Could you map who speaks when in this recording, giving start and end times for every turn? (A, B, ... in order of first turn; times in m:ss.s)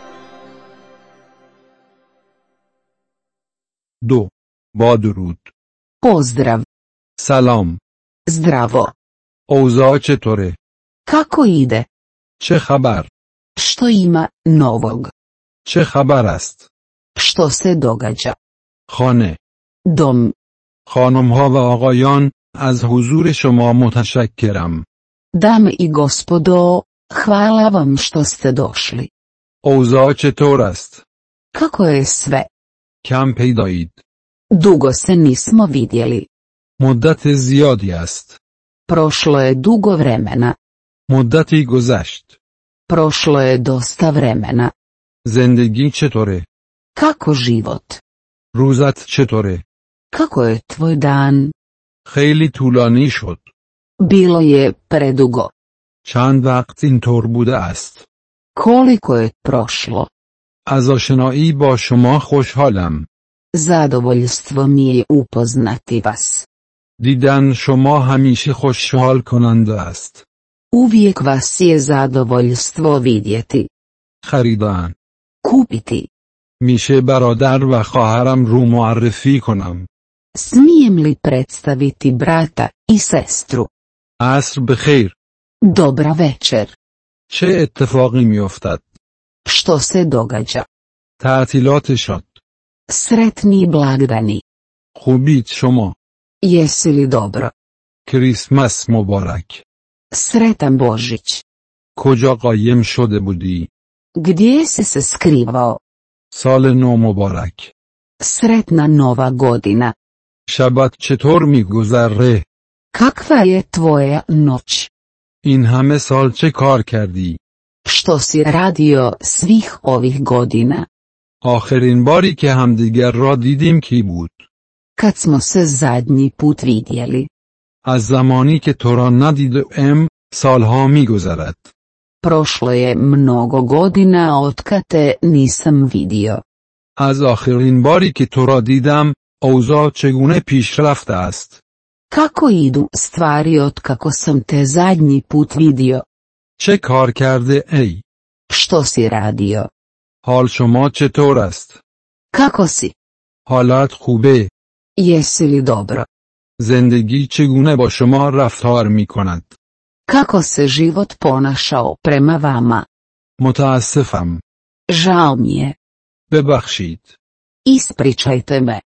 0:04.0-0:05.5 A
0:06.0-0:06.6 B
0:07.2-0:07.8 A
0:08.3-0:08.9 B
0:09.5-0:10.6 A
0:11.1-0:11.9 B
0:12.4-0:13.1 A
0:13.6-0:15.1 B
0:15.6-0:16.7 A
0:17.2-0:18.4 B
0:18.9-0:19.4 A
0:19.9-0:20.4 B
0:20.9-0:24.8 A
0:25.3-0:29.1 B
0:29.6-0:31.0 A
0:31.5-0:32.5 B
0:33.0-0:34.0 A
0:34.5-0:36.3 B
0:36.8-0:38.4 A
0:38.9-0:40.6 B
0:41.1-0:42.4 A
0:42.9-0:44.7 B
0:45.2-0:46.5 A
0:47.0-0:48.0 B
0:48.5-0:49.6 A
0:50.1-0:51.5 B
0:52.0-0:53.4 A
0:54.0-0:55.5 B
0:56.0-0:58.1 A
0:58.6-1:00.1 B
1:00.7-1:03.1 A
1:03.5-1:06.5 B
1:07.0-1:10.2 A
1:10.7-1:13.7 B
1:14.2-1:15.0 A
1:15.4-1:16.1 B
1:16.6-1:19.9 A
1:20.4-1:23.7 B
1:24.2-1:25.2 A
1:25.6-1:26.8 B
1:27.3-1:29.0 A
1:29.4-1:30.7 B
1:31.2-1:32.4 A
1:32.9-1:34.4 B
1:35.0-1:36.0 A
1:36.4-1:37.5 B
1:38.1-1:39.6 A
1:40.1-1:41.4 B
1:42.0-1:43.7 A
1:44.2-1:45.8 B
1:46.3-1:47.7 A
1:48.2-1:49.9 B
1:50.5-1:52.5 A
1:52.9-1:54.9 B
1:55.4-1:57.4 A
1:57.8-2:00.9 B
2:01.4-2:04.4 A
2:05.0-2:07.3 B
2:07.8-2:11.7 A
2:12.2-2:16.4 B
2:17.0-2:21.6 A
2:22.1-2:26.0 B
2:26.6-2:28.0 A
2:28.5-2:29.7 B
2:30.2-2:31.8 A
2:32.3-2:32.9 B
2:33.5-2:34.5 A
2:35.0-2:36.1 B
2:36.6-2:39.5 A
2:40.1-2:42.8 B
2:43.4-2:44.4 A
2:44.9-2:45.8 B
2:46.3-2:47.1 A
2:47.7-2:48.8 B